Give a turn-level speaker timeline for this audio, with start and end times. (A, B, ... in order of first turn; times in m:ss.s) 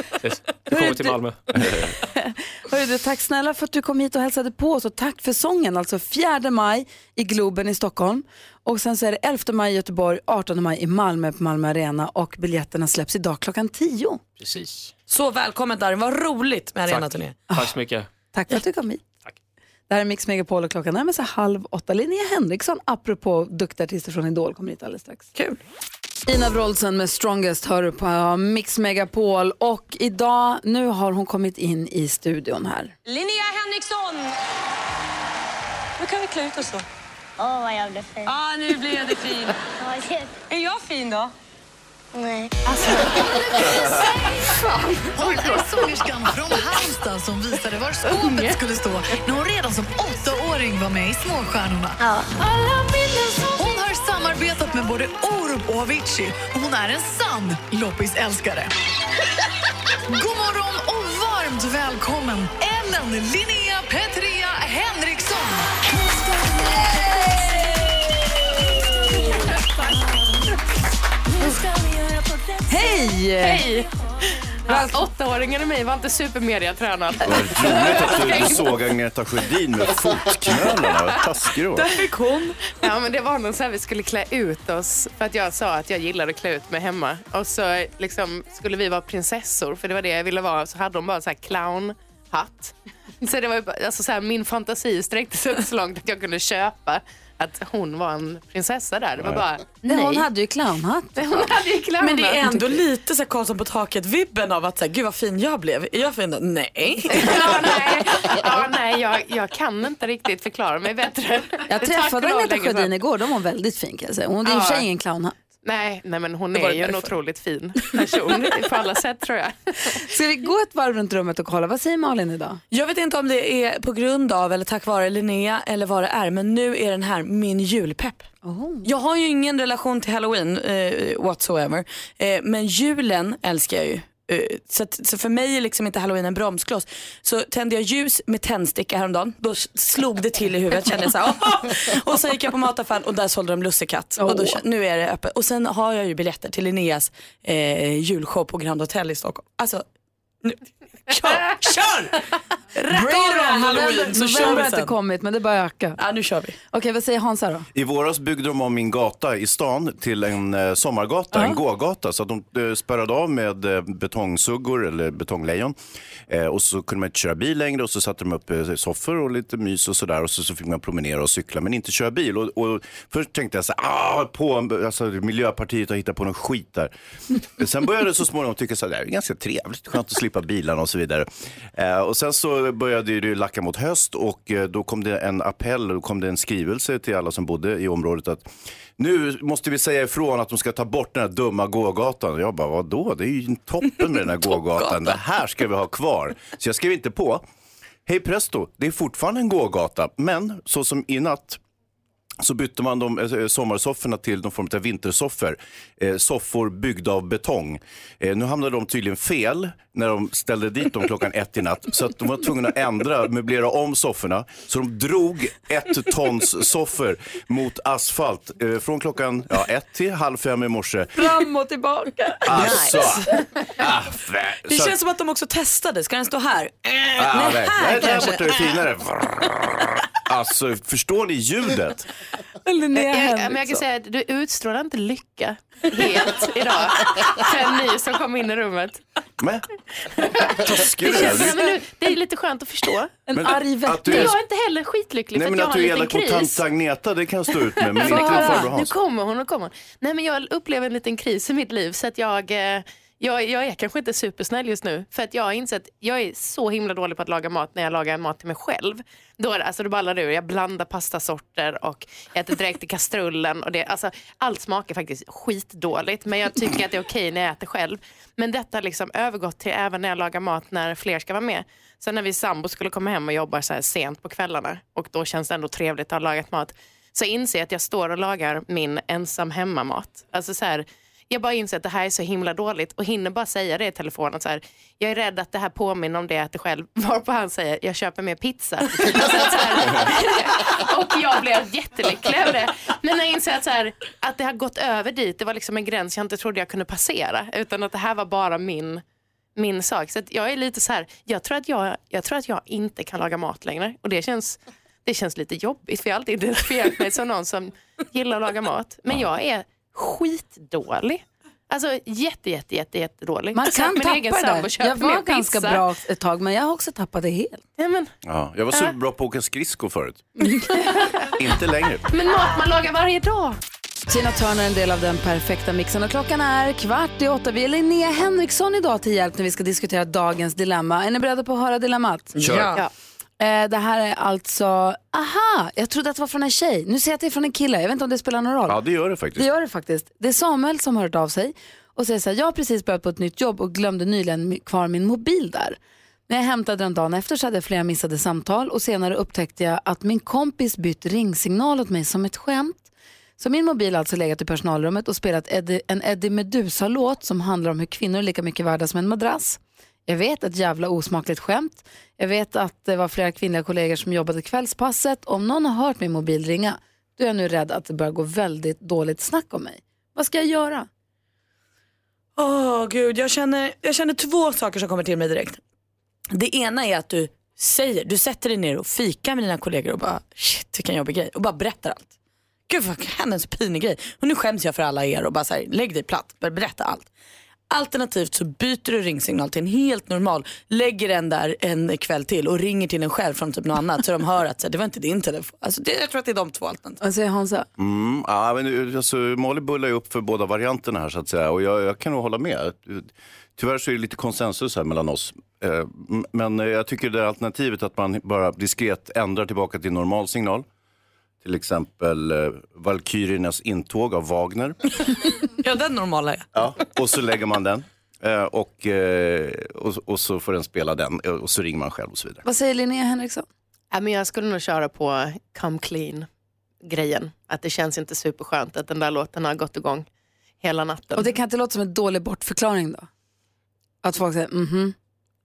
0:00.2-0:01.4 A
0:00.7-0:01.2 B
0:01.5-0:01.9 C
0:02.2-0:14.2 B
0:14.4-0:14.9 A
0:15.1-0:17.4 D
0:16.9-0:18.1 A
0:18.3-0:19.0 B
0:19.9-0:25.3 B
0:26.3-0:32.9 B
0:33.0-0:34.3 E
0:36.2-0:36.6 E
0:37.4-0:38.3 F
0:38.2-0:39.5 E
0:39.9-0:40.2 F
0:40.5-0:41.3 E
0:43.0-0:43.8 F
0:45.1-0:51.9 G
0:52.0-0:52.2 F
0:53.5-0:58.6 G
1:00.1-1:05.6 G
1:06.7-1:07.9 B
1:12.7-1:13.6 B
1:13.4-1:13.9 H
1:14.7-1:15.0 B
1:14.7-1:18.7 H
1:17.2-1:21.9 C
1:22.7-1:40.3 H
1:39.8-1:41.5 B
1:41.2-1:42.7 H
1:42.0-1:47.4 D
1:47.1-1:52.9 H
1:51.7-1:55.4 B
1:54.4-1:54.9 H
1:55.6-2:00.0 H
2:00.1-2:02.6 B
2:02.7-2:08.3 D
2:08.4-2:08.9 B
2:08.8-2:29.8 D
2:24.2-2:24.6 B
2:30.4-2:32.1 D
2:32.7-2:34.9 D
2:32.9-2:36.0 B
2:36.0-2:36.6 D
2:36.7-2:37.7 B
2:37.7-2:45.8 C
2:41.3-2:41.6 B
2:46.3-2:56.9 C
2:57.6-3:17.4 C
3:14.5-3:15.2 D
3:18.0-3:21.6 C
3:22.4-3:41.1 C
3:41.2-3:43.1 B
3:42.4-3:43.3 C
3:43.8-3:45.0 C
3:44.7-3:48.6 D
3:47.2-3:52.1 C
3:52.6-3:53.8 B
3:52.9-3:59.0 H
3:59.4-3:59.6 C
4:00.2-4:03.2 H
4:00.4-4:01.6 C
4:01.1-4:01.5 B
4:03.3-4:04.4 B
4:03.3-4:04.4 C
4:04.1-4:06.6 H
4:05.3-4:08.9 C
4:07.8-4:59.0 H
4:08.0-4:08.7 B
4:59.6-5:15.8 H
5:13.5-5:17.6 B
5:17.8-5:18.1 H
5:18.2-5:20.2 C
5:20.9-5:21.3 H
5:21.3-5:22.1 C
5:22.1-5:23.6 H
5:24.1-5:32.3 B
5:32.3-5:32.8 D
5:32.4-5:32.7 C
5:33.4-5:38.8 B
5:38.7-5:39.5 C
5:39.4-5:52.9 B
5:53.4-6:10.9 B
6:12.4-6:15.6 D
6:16.3-6:22.1 D
6:22.7-6:27.1 D
6:27.7-6:37.0 D
6:37.0-6:37.6 B
6:37.8-6:50.6 C
6:51.4-6:54.8 C
6:55.3-6:56.4 D
6:56.5-7:02.4 C
7:02.4-7:03.4 B
7:03.9-7:06.3 H
7:06.8-7:10.0 H
7:10.6-7:11.3 H
7:11.1-7:13.1 B
7:14.0-7:14.9 B